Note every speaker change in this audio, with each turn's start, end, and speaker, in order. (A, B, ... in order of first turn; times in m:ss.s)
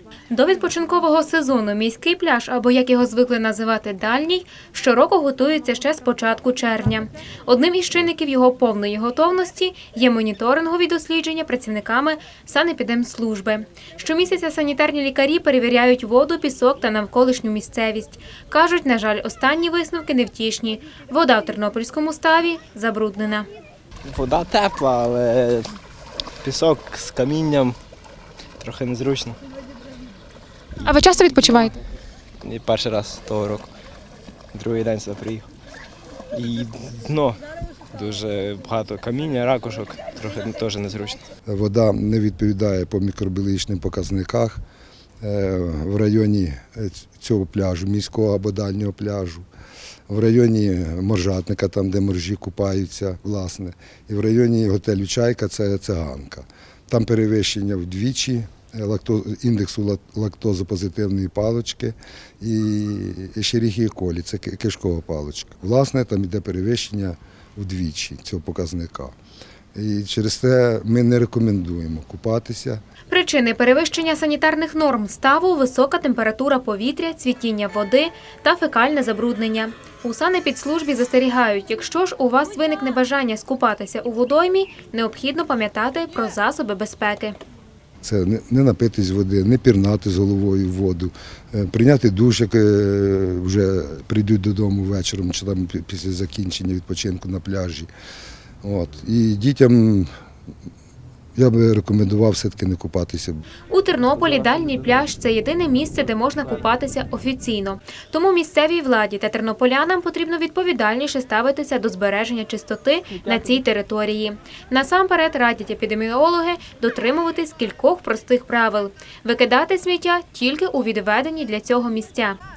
0:00.3-0:23.5 A
0:24.0-0:25.7 B
0:26.4-0:27.8 B
0:28.6-0:29.4 B
0:30.8-0:31.6 B
0:30.8-0:31.8 A
0:32.4-0:33.7 B
0:34.5-0:35.5 B
0:36.3-0:41.2 B
0:41.5-0:44.6 C
0:45.2-0:49.5 C
0:50.1-1:09.2 C
1:09.7-1:12.8 C
1:13.1-1:27.4 A
1:28.0-1:37.9 C
1:38.6-1:40.1 C
1:41.4-1:43.4 C
1:43.7-2:02.4 A
1:44.4-1:44.7 B